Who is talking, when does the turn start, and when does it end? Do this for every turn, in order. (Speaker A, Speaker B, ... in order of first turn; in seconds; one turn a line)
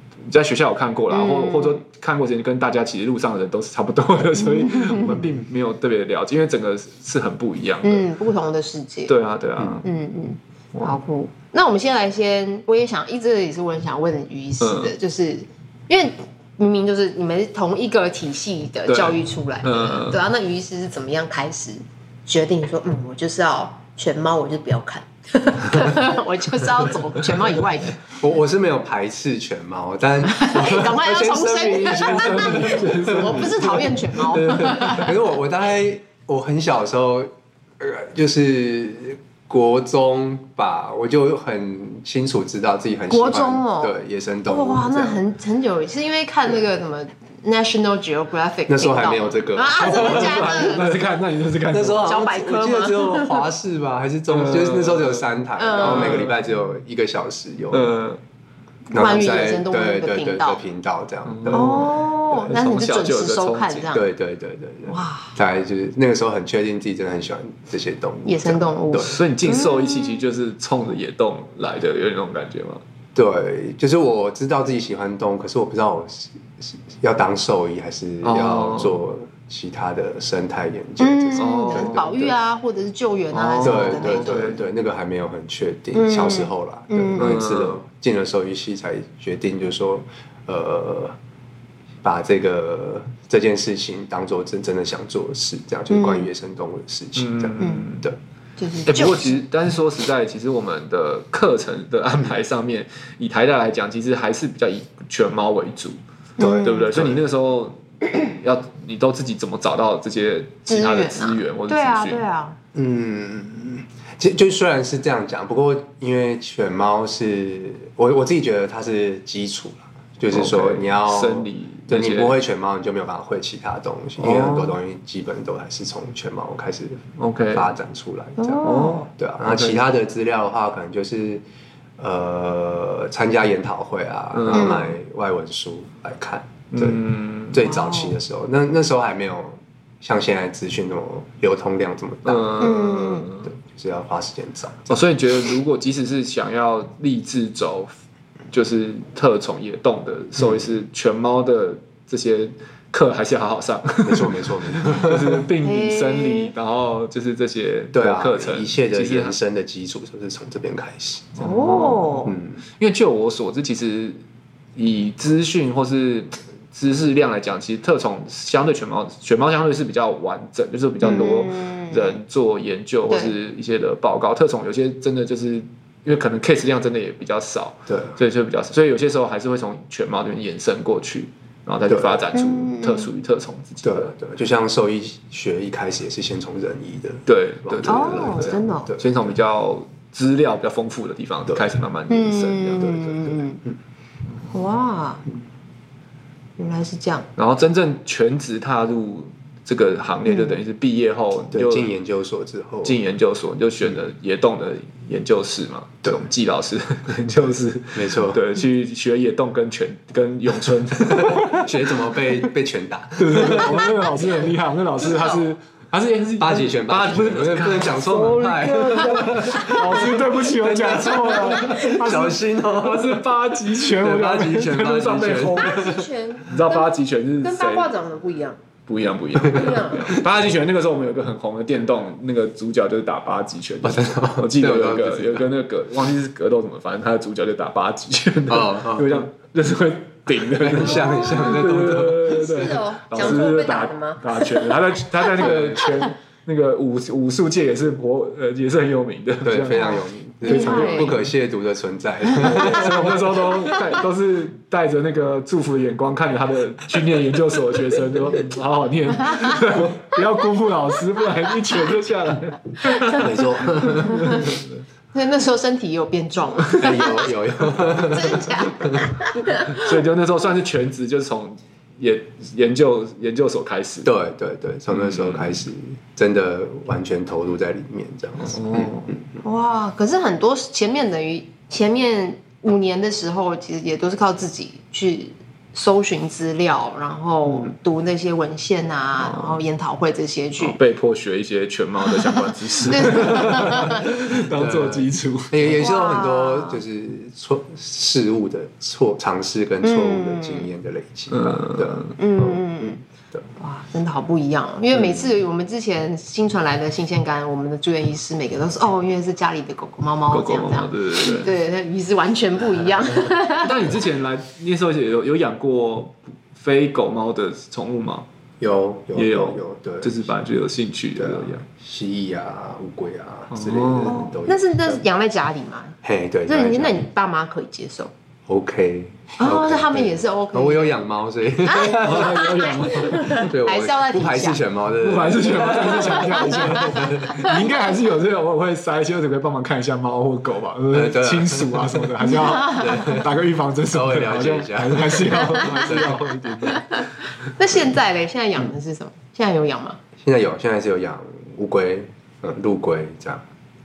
Speaker A: 0.3-8.1
Speaker B: 1.1-1.8
Speaker B: 4.4-5.3
Speaker B: 7.8-9.1
Speaker A: 9.1-9.9
Speaker C: 9.6-9.8
Speaker B: 9.8-28.0
Speaker A: 14.6-14.9
Speaker A: 18.9-20.2
Speaker C: 28.1-45.2
Speaker B: 30.3-35.1
Speaker A: 31.8-35.1
Speaker B: 43.1-44.0
Speaker B: 44.5-50.9
Speaker C: 48.7-51.0
Speaker A: 49.8-52.1
Speaker C: 51.7-57.9
Speaker B: 52.0-53.5
Speaker A: 54.3-55.2
Speaker B: 55.6-56.3
Speaker A: 55.8-56.4
Speaker A: 57.7-58.2
Speaker B: 58.9-60.6
Speaker C: 58.9-62.4
Speaker A: 61.3-63.9
Speaker B: 61.5-64.0
Speaker C: 63.9-69.2
Speaker B: 64.9-65.3
Speaker B: 68.2-70.2
Speaker A: 68.9-72.8
Speaker C: 73.2-82.3
Speaker A: 78.2-79.0
Speaker B: 81.0-84.6
Speaker A: 81.4-82.1
Speaker A: 83.3-84.6
Speaker C: 83.6-91.2
Speaker B: 85.9-87.3
Speaker A: 87.2-87.8
Speaker C: 92.0-98.2
Speaker B: 95.9-96.3
Speaker A: 97.2-98.1
Speaker B: 97.6-97.8
Speaker B: 98.6-99.4
Speaker A: 98.9-106.0
Speaker B: 106.4-106.9
Speaker C: 106.4-107.2
Speaker A: 106.6-112.2
Speaker B: 110.7-112.6
Speaker C: 112.8-131.4
Speaker A: 120.3-122.4
Speaker A: 124.2-124.8
Speaker A: 127.2-127.7
Speaker B: 128.4-129.1
Speaker A: 128.6-129.8
Speaker C: 132.0-142.8
Speaker A: 134.3-134.9
Speaker B: 134.5-134.9
Speaker A: 136.7-137.6
Speaker B: 137.6-138.2
Speaker A: 142.2-143.5
Speaker B: 142.6-143.3
Speaker C: 143.4-145.0
Speaker A: 144.9-147.9
Speaker A: 148.5-159.4
Speaker C: 150.4-150.7
Speaker C: 154.0-155.5
Speaker B: 155.6-156.5
Speaker C: 157.9-161.4
Speaker A: 161.4-162.3
Speaker B: 161.4-162.3
Speaker C: 162.3-162.6
Speaker A: 162.8-164.2
Speaker A: 164.8-184.1
Speaker B: 171.0-172.2
Speaker B: 173.1-173.3
Speaker C: 177.9-178.2
Speaker C: 181.9-182.3
Speaker B: 182.3-183.1
Speaker C: 183.8-189.3
Speaker A: 187.3-193.2
Speaker B: 187.8-188.9
Speaker B: 192.1-193.6
Speaker C: 192.8-193.8
Speaker B: 194.5-195.2
Speaker B: 196.6-197.3
Speaker A: 197.4-201.9
Speaker B: 200.3-200.6
Speaker C: 201.5-203.0
Speaker A: 202.8-212.3
Speaker C: 207.9-208.4
Speaker C: 211.0-214.2
Speaker A: 213.2-227.9
Speaker B: 215.0-215.4
Speaker C: 216.4-226.1
Speaker B: 219.4-220.1
Speaker B: 221.3-221.8
Speaker B: 225.6-228.6
Speaker A: 228.9-251.3
Speaker C: 229.4-230.2
Speaker B: 229.5-230.1
Speaker C: 233.8-235.5
Speaker C: 238.5-239.3
Speaker C: 240.3-243.4
Speaker B: 240.8-241.6
Speaker B: 242.3-246.1
Speaker C: 245.4-246.0
Speaker C: 249.4-253.5
Speaker B: 249.8-251.2
Speaker B: 252.2-254.0
Speaker A: 252.4-264.8
Speaker B: 262.9-263.2
Speaker C: 263.1-264.6
Speaker B: 264.0-264.5
Speaker B: 265.1-269.9
Speaker C: 266.8-269.1
Speaker A: 269.6-274.1
Speaker C: 274.0-279.4
Speaker A: 274.9-275.6
Speaker A: 278.4-279.2
Speaker B: 279.4-290.8
Speaker A: 289.2-289.6
Speaker A: 290.6-295.8
Speaker B: 292.1-294.1
Speaker C: 294.4-303.5
Speaker B: 295.8-296.8
Speaker B: 299.8-300.7
Speaker A: 301.3-302.1
Speaker B: 302.2-303.0
Speaker B: 303.6-314.0
Speaker C: 304.9-305.2
Speaker A: 310.3-311.5
Speaker A: 313.6-318.3
Speaker C: 318.6-320.4
Speaker A: 319.1-321.6
Speaker C: 321.1-325.0
Speaker A: 323.5-324.3
Speaker B: 324.1-328.1
Speaker C: 326.0-327.0
Speaker C: 328.5-332.5
Speaker B: 329.4-330.9
Speaker B: 331.6-334.6
Speaker A: 331.8-333.5
Speaker C: 333.3-337.6
Speaker A: 335.0-347.1
Speaker B: 335.7-337.6
Speaker C: 340.9-343.4
Speaker B: 342.2-343.2
Speaker C: 343.9-346.4
Speaker B: 345.4-346.0
Speaker B: 346.6-350.0
Speaker C: 350.2-353.4